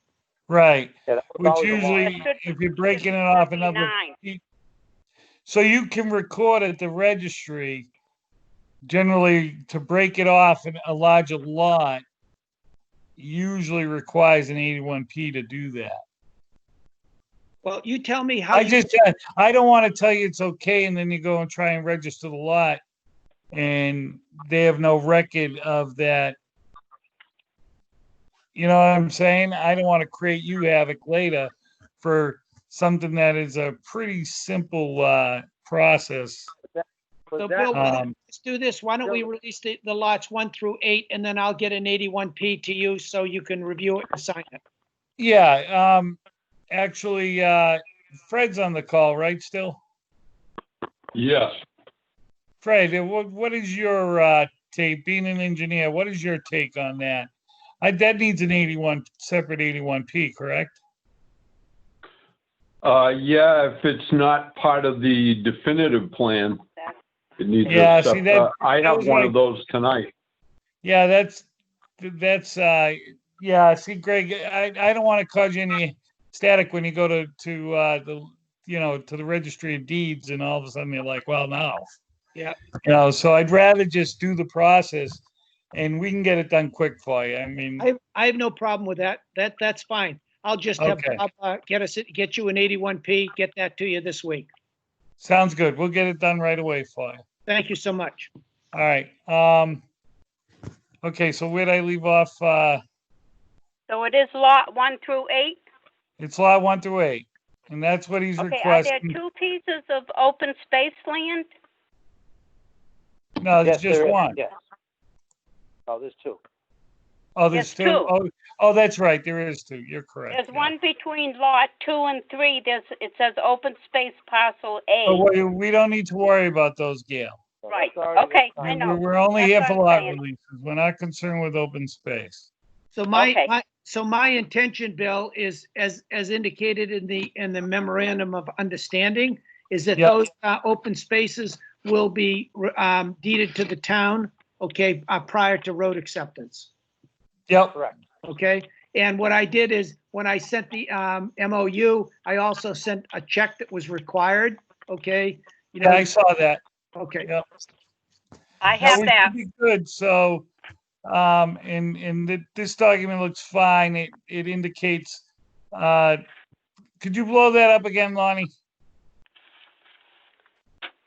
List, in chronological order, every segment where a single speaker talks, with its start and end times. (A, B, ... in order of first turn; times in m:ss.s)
0:00.5-0:04.4 A
0:01.1-0:02.2 B
0:02.0-0:04.2 C
0:05.4-0:07.9 A
0:08.8-0:12.0 A
0:13.2-0:16.0 A
0:17.6-0:18.9 D
0:18.5-0:22.8 A
0:23.5-0:26.4 A
0:28.5-0:36.5 A
0:36.7-0:38.0 B
0:37.4-0:44.6 D
0:37.7-0:38.1 A
0:45.2-0:46.2 A
0:46.7-0:49.8 A
0:51.1-0:51.6 E
0:52.6-0:57.3 A
0:57.8-1:00.8 A
1:02.8-1:06.6 E
1:07.4-1:10.1 E
1:07.7-1:09.3 A
1:10.8-1:11.5 A
1:12.0-1:21.9 A
1:22.8-1:27.9 A
1:27.8-1:34.5 D
1:30.8-1:31.2 A
1:35.2-1:37.2 A
1:37.5-1:38.3 D
1:38.7-1:39.8 A
1:41.0-1:42.8 A
1:43.9-1:45.6 C
1:46.2-1:49.2 A
1:48.4-1:51.5 C
1:53.4-1:54.4 A
1:53.6-1:54.5 B
1:55.9-1:56.4 B
1:57.4-2:00.7 A
1:57.5-1:58.1 C
2:00.3-2:05.2 C
2:05.0-2:07.4 A
2:07.6-2:09.0 B
2:07.7-2:10.2 C
2:08.6-2:12.5 A
2:12.9-2:26.7 D
2:13.1-2:13.5 C
2:27.5-2:27.8 A
2:28.2-2:36.1 D
2:35.8-2:36.6 A
2:37.0-2:37.3 D
2:38.6-2:39.3 C
2:38.8-2:40.5 A
2:41.0-2:46.2 A
2:47.0-2:48.5 A